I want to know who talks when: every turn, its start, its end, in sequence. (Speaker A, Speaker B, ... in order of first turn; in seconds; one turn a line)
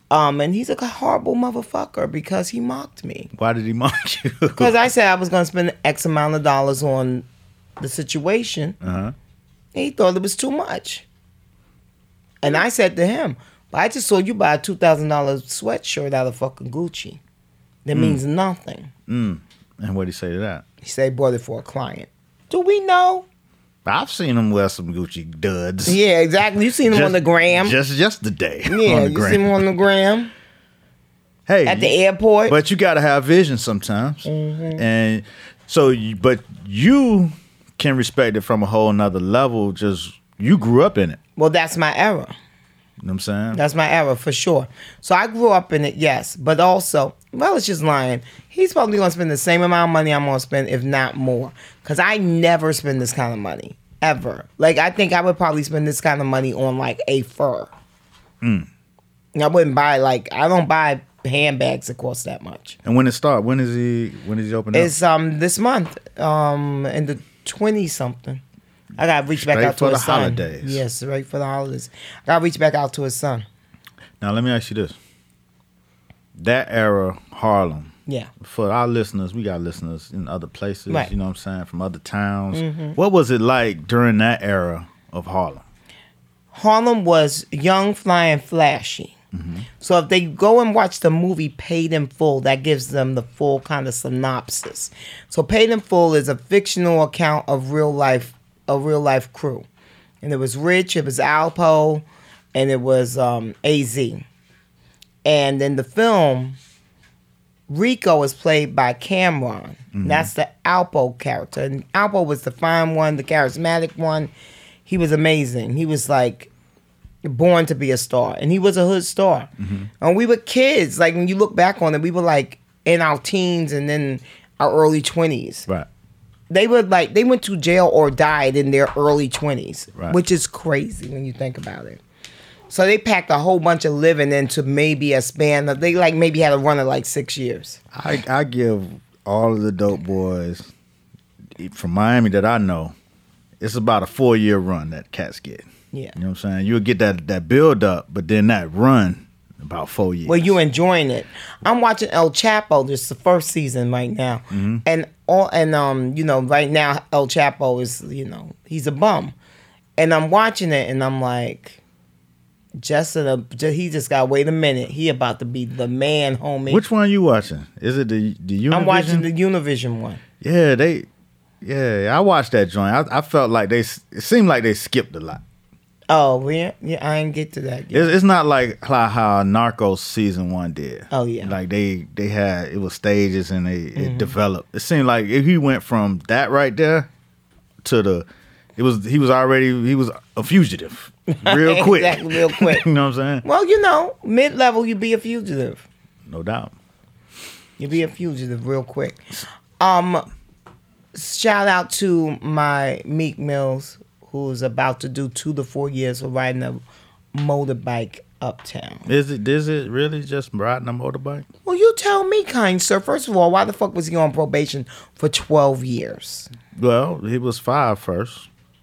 Speaker A: 0.1-3.3
Speaker B: 3.3-4.8
Speaker A: 4.5-7.2
Speaker A: 7.8-8.8
Speaker B: 8.8-9.1
Speaker A: 9.7-11.0
Speaker A: 12.4-17.2
Speaker A: 17.8-18.9
Speaker B: 17.9-18.2
Speaker B: 19.1-20.6
Speaker A: 20.8-23.2
Speaker B: 23.9-26.0
Speaker A: 25.9-27.7
Speaker B: 26.8-29.6
Speaker A: 28.7-30.3
Speaker B: 31.5-31.9
Speaker A: 31.6-32.5
Speaker B: 32.5-41.2
Speaker A: 34.2-34.8
Speaker A: 41.4-42.3
Speaker B: 43.0-43.6
Speaker A: 43.5-57.7
Speaker B: 58.4-58.7
Speaker A: 59.3-62.8
Speaker B: 62.8-64.9
Speaker A: 64.7-68.4
Speaker A: 69.0-73.5
Speaker B: 69.3-70.8
Speaker B: 74.2-75.0
Speaker B: 76.3-85.6
Speaker A: 82.5-83.0
Speaker A: 86.5-89.1
Speaker B: 89.3-89.6
Speaker A: 89.8-99.7
Speaker A: 100.2-104.2
Speaker A: 105.2-106.6
Speaker A: 107.7-114.3
Speaker B: 109.9-110.3
Speaker A: 114.8-116.5
Speaker A: 117.2-125.7
Speaker B: 119.6-119.9
Speaker A: 126.5-132.0
Speaker A: 132.7-137.8
Speaker B: 137.9-140.7
Speaker B: 141.6-142.9
Speaker B: 143.6-150.6
Speaker A: 150.2-159.3
Speaker B: 154.5-154.8
Speaker A: 160.0-161.8
Speaker A: 162.8-166.8
Speaker B: 166.7-169.2
Speaker A: 168.7-170.2
Speaker B: 170.4-171.1
Speaker B: 171.6-175.4
Speaker A: 176.1-178.1
Speaker B: 177.9-187.1
Speaker A: 181.1-181.5
Speaker A: 183.9-184.3
Speaker B: 187.8-188.2
Speaker B: 188.8-193.4
Speaker A: 191.3-192.8
Speaker A: 193.4-195.8
Speaker B: 196.3-196.7
Speaker A: 197.8-199.2
Speaker A: 199.8-200.2
Speaker A: 201.1-206.8
Speaker A: 207.3-209.1
Speaker B: 209.1-211.4
Speaker A: 211.6-216.5
Speaker B: 216.8-218.5